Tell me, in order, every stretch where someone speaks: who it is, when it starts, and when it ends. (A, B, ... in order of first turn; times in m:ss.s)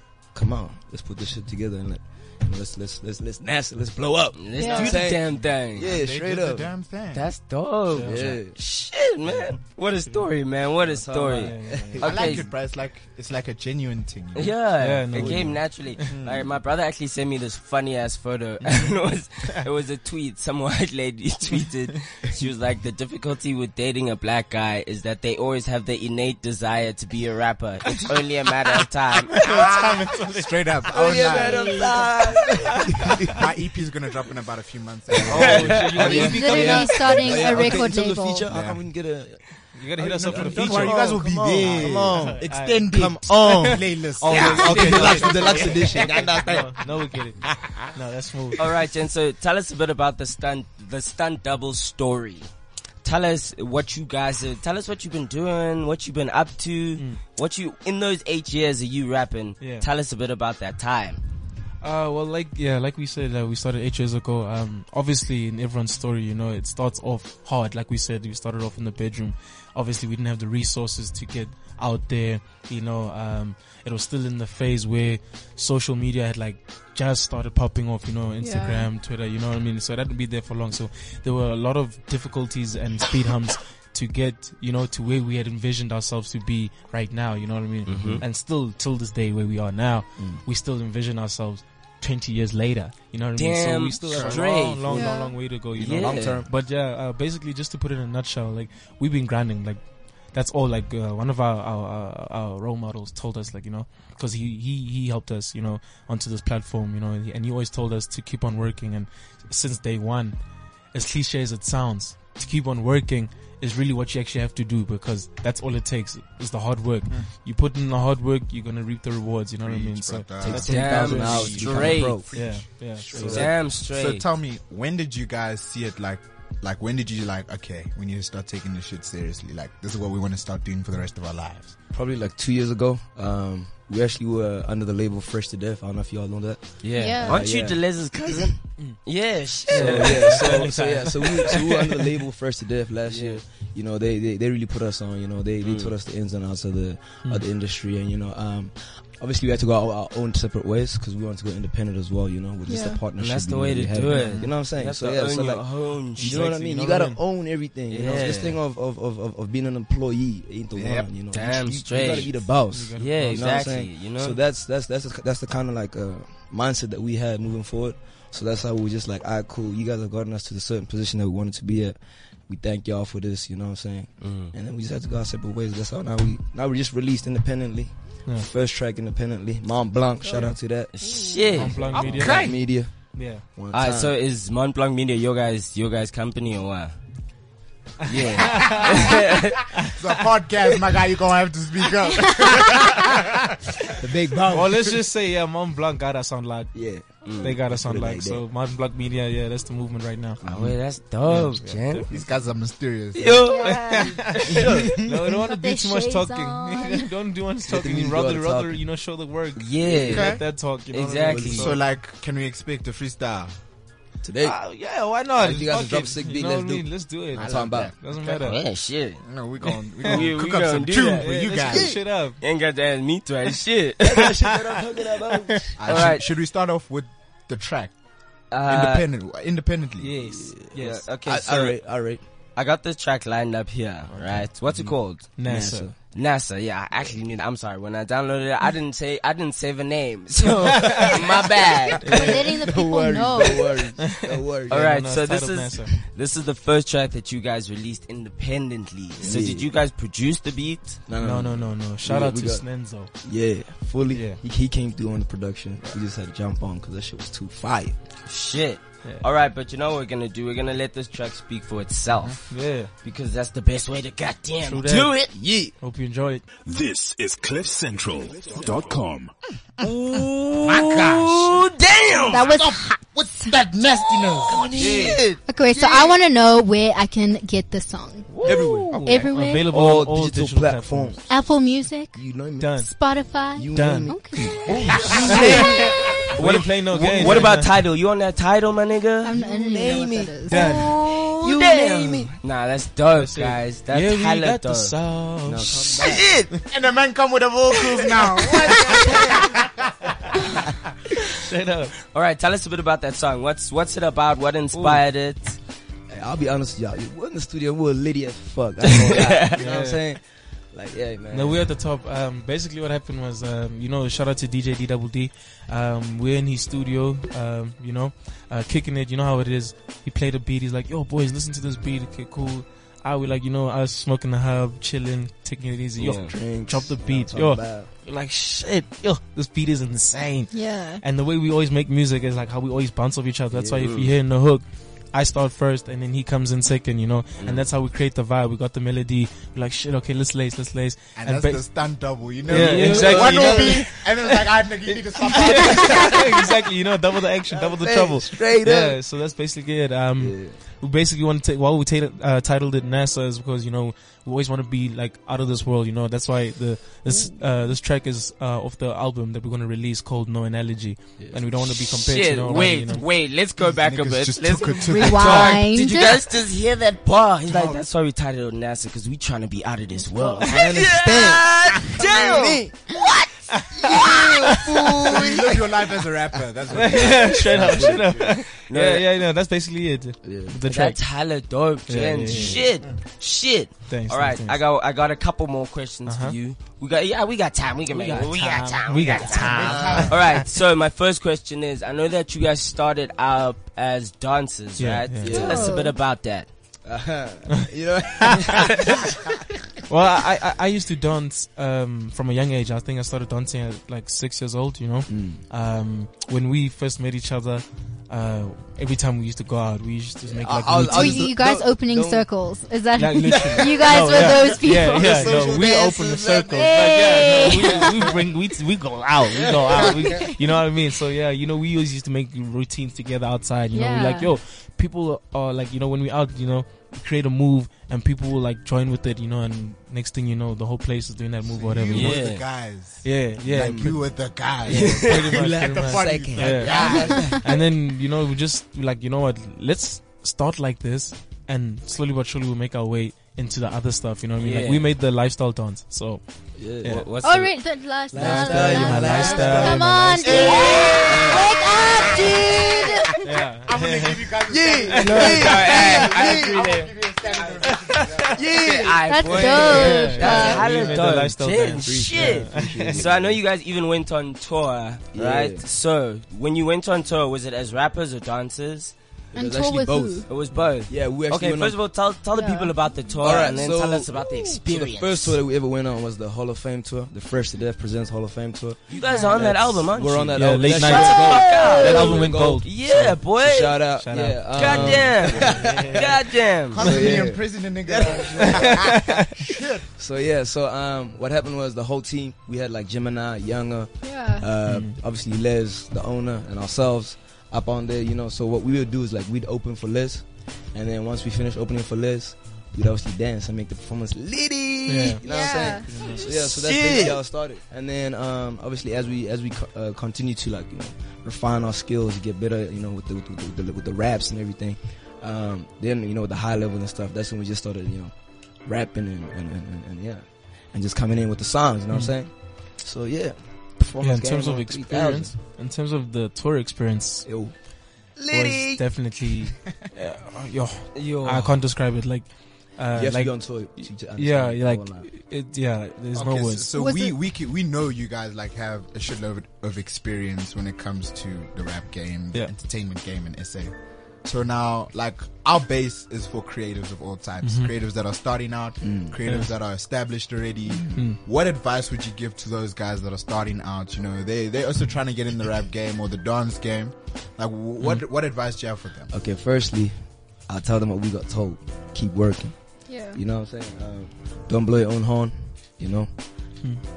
0:00.3-0:06.7 A
0:04.4-0:05.9 B
0:04.6-0:05.0 C
0:04.6-0:04.9 D
0:05.9-0:07.3 E
0:07.1-0:12.5 B
0:07.9-0:08.4 D
0:08.0-0:08.6 A
0:11.0-0:12.4 A
0:11.1-0:12.0 D
0:12.0-0:14.6 E
0:14.4-0:29.5 B
0:14.8-0:16.1 D
0:15.1-0:15.6 A
0:16.1-0:16.4 E
0:29.3-0:31.4 D
0:29.4-0:32.1 E
0:30.9-0:33.5 A
0:32.4-0:33.1 D
0:33.2-0:36.3 E
0:35.1-0:46.7 A
0:35.2-0:37.8 D
0:35.3-0:36.3 B
0:36.0-0:38.5 C
0:38.5-0:38.8 E
0:39.8-0:41.0 D
0:40.0-0:46.4 E
0:41.6-0:42.9 D
0:44.2-0:48.6 D
0:44.3-0:45.0 B
0:47.5-0:47.9 E
0:48.6-0:52.5 B
0:53.0-1:01.2 B
0:59.6-0:59.9 D
1:01.8-1:50.4 D
1:18.4-1:18.9 C
1:27.9-1:28.2 B
1:28.0-1:28.2 A
1:30.2-1:30.4 A
1:33.4-1:35.0 B
1:34.0-1:34.3 A
1:34.1-1:34.4 E
1:34.9-1:35.4 C
1:35.7-1:36.5 A
1:35.8-1:36.4 B
1:50.9-2:01.6 D
1:59.6-2:11.8 E
2:00.4-2:03.6 A
2:00.5-2:02.3 B
2:02.2-2:03.4 D
2:03.1-2:04.2 B
2:11.9-2:18.5 A
2:16.8-2:20.7 B
2:17.0-2:17.4 C
2:19.7-2:22.0 D
2:19.7-2:52.0 A
2:23.1-2:23.4 B
2:25.6-2:25.9 B
2:32.7-2:33.0 C
2:33.2-2:36.5 B
2:36.2-2:37.2 D
2:37.9-2:38.6 B
2:40.8-2:41.1 E
2:41.3-2:42.4 B
2:42.7-2:43.7 D
2:43.0-2:44.4 B
2:52.5-3:04.2 A
2:54.2-2:54.5 B
3:00.9-3:02.6 B
3:01.6-3:03.4 D
3:03.7-3:06.9 B
3:08.0-3:09.1 D
3:08.1-3:09.7 B
3:08.4-3:09.1 E
3:10.0-3:14.8 E
3:12.3-3:12.9 C
3:14.0-3:14.9 A
3:14.5-3:16.7 D
3:16.7-3:18.4 A
3:17.2-3:17.5 B
3:17.4-3:20.4 D
3:20.4-3:20.8 A
3:20.4-3:22.1 B
3:21.3-3:22.2 D
3:22.1-3:23.7 E
3:23.2-3:24.1 B
3:23.4-3:24.5 C
3:23.7-3:31.8 D
3:24.5-3:25.1 E
3:24.5-3:24.8 A
3:25.3-3:27.1 C
3:27.7-3:28.8 A
3:29.6-3:31.7 B
3:29.8-3:30.3 A
3:30.1-3:30.4 E
3:31.3-3:31.7 A
3:31.5-3:33.5 E
3:34.2-3:34.6 A
3:34.4-3:38.6 D
3:35.4-3:37.9 A
3:37.3-3:38.0 E
3:38.2-3:39.2 B
3:39.2-3:42.0 E
3:40.0-3:41.8 B
3:40.0-3:40.3 D
3:41.2-3:42.4 D
3:42.4-3:44.3 B
3:44.0-3:46.0 A
3:45.4-3:45.8 D
3:45.8-3:48.0 E
3:45.8-3:46.3 B
3:48.5-3:49.1 B
3:48.7-3:50.2 E
3:50.0-3:51.1 D
3:50.8-3:51.9 B
3:51.2-3:52.2 A
3:52.6-3:55.3 B
3:55.4-3:55.9 D
3:55.4-3:56.0 A
3:56.1-4:02.3 B
4:00.7-4:01.2 D
4:02.0-4:04.9 A
4:02.1-4:03.9 C
4:04.0-4:05.9 D
4:04.7-4:11.0 B
4:09.2-4:09.7 A
4:11.1-4:18.0 A
4:11.2-4:13.1 D
4:14.1-4:14.4 D
4:18.3-4:22.5 B
4:22.5-4:22.9 D
4:23.0-4:25.3 B
4:24.6-4:25.2 D
4:25.3-4:25.8 A
4:25.8-4:26.4 D
4:26.7-4:29.3 F
4:29.8-4:32.5 B
4:30.6-4:31.6 E
4:32.3-4:33.5 C
4:32.3-4:34.7 E
4:34.4-4:35.4 A
4:34.5-4:35.2 B
4:34.8-4:35.2 D
4:35.5-4:38.3 C
4:38.3-4:41.2 D
4:38.4-4:39.1 A
4:39.0-4:39.7 C
4:39.6-4:41.3 A
4:41.3-4:42.2 C
4:42.1-4:42.8 A
4:42.6-4:42.9 D
4:42.8-4:45.7 C
4:43.6-4:45.9 A
4:43.8-4:44.2 D
4:45.0-4:47.7 D
4:45.1-4:45.6 B
4:46.4-4:49.4 B
4:49.2-4:50.8 C
4:49.3-4:52.3 A
4:50.5-4:50.9 D
4:50.6-4:54.9 B
4:53.1-4:56.2 D
4:55.4-4:56.3 A
4:56.0-4:56.5 B
4:56.7-5:00.6 E
4:58.2-4:59.1 B
4:58.6-4:59.6 A
5:01.3-5:01.9 D
5:02.1-5:05.6 B
5:04.7-5:05.0 D
5:06.1-5:11.6 A
5:09.0-5:09.6 B
5:09.6-5:10.0 D
5:11.3-5:41.8 D
5:26.0-5:26.3 B
5:26.0-5:27.9 A
5:30.5-5:31.0 C
5:33.5-5:33.9 A
5:33.8-5:34.1 B
5:37.4-5:37.6 B
5:41.2-5:46.3 E
5:42.5-5:44.1 D
5:42.5-5:43.9 A
5:42.5-5:43.7 B
5:45.3-5:46.2 A
5:45.3-6:03.1 D
5:47.5-5:49.0 A
5:50.2-5:50.6 A
6:01.9-6:13.3 B
6:03.6-6:05.7 E
6:04.8-6:06.2 C
6:07.5-6:07.9 E
6:10.4-6:13.0 A
6:13.5-6:14.7 D
6:13.8-6:15.9 A
6:13.8-6:15.2 B
6:15.1-6:18.4 E
6:16.6-6:18.4 A
6:16.7-6:21.0 D
6:18.7-6:19.0 B
6:20.2-6:20.6 A
6:20.7-6:36.5 B
6:21.9-6:22.7 D
6:22.3-6:22.6 A
6:23.9-6:24.6 D
6:26.1-6:26.4 D
6:27.9-6:30.4 D
6:29.4-6:30.2 E
6:29.6-6:30.2 A
6:34.8-6:35.4 D
6:35.2-6:35.8 A
6:35.3-6:35.9 C
6:36.8-6:39.3 A
6:38.6-6:39.0 B
6:39.9-6:51.3 D
6:45.1-6:45.4 A
6:50.2-6:52.3 A
6:50.8-6:55.6 C
6:53.0-7:12.4 D
6:53.2-6:57.9 A
6:56.5-6:58.0 C
6:59.4-7:00.2 A
7:03.7-7:04.3 C
7:11.5-7:17.4 E
7:11.9-7:12.4 B
7:13.0-7:27.1 D
7:13.5-7:14.0 A
7:14.7-7:15.2 B
7:14.8-7:17.4 A
7:16.8-7:17.4 C
7:24.4-7:24.9 B
7:26.6-7:27.0 A
7:26.8-7:27.6 B
7:27.2-7:33.3 C
7:28.1-7:32.8 A
7:28.2-7:30.4 D
7:29.1-7:32.9 E
7:30.4-7:31.3 B
7:33.2-7:34.3 D
7:33.6-7:38.6 E
7:34.5-7:36.7 A
7:34.9-7:35.5 D
7:35.0-7:37.6 B
7:37.7-7:38.3 D
7:38.3-7:43.4 A
7:38.5-7:48.9 B
7:39.1-7:40.7 C
7:39.7-7:43.0 D
7:45.1-7:45.7 A
7:49.3-7:50.3 A
7:49.4-7:50.3 C
7:50.3-7:55.4 B
7:50.9-7:51.8 A
7:52.3-7:53.6 C
7:53.2-8:02.8 A
7:58.9-8:03.9 B
7:59.0-7:59.4 C
8:00.4-8:03.2 D
8:03.4-8:06.2 A
8:03.9-8:06.1 D
8:04.6-8:06.8 B
8:06.7-8:09.9 E
8:06.7-8:38.1 A
8:08.5-8:09.3 D
8:14.0-8:14.5 C
8:14.7-8:15.0 D
8:24.9-8:25.2 D
8:25.2-8:25.9 C
8:25.9-8:26.2 D
8:26.1-8:27.2 B
8:38.6-8:45.3 A
8:44.0-8:47.3 D
8:47.2-8:47.5 A
8:48.2-8:48.8 A
8:48.3-8:56.7 D
8:51.0-8:51.6 B
8:52.9-8:55.1 A
8:56.1-9:19.1 E
8:56.7-8:57.2 C
9:07.4-9:07.7 D
9:08.8-9:09.2 A
9:11.0-9:11.2 D
9:19.1-9:20.0 A
9:20.5-9:26.1 A
9:22.9-9:23.2 C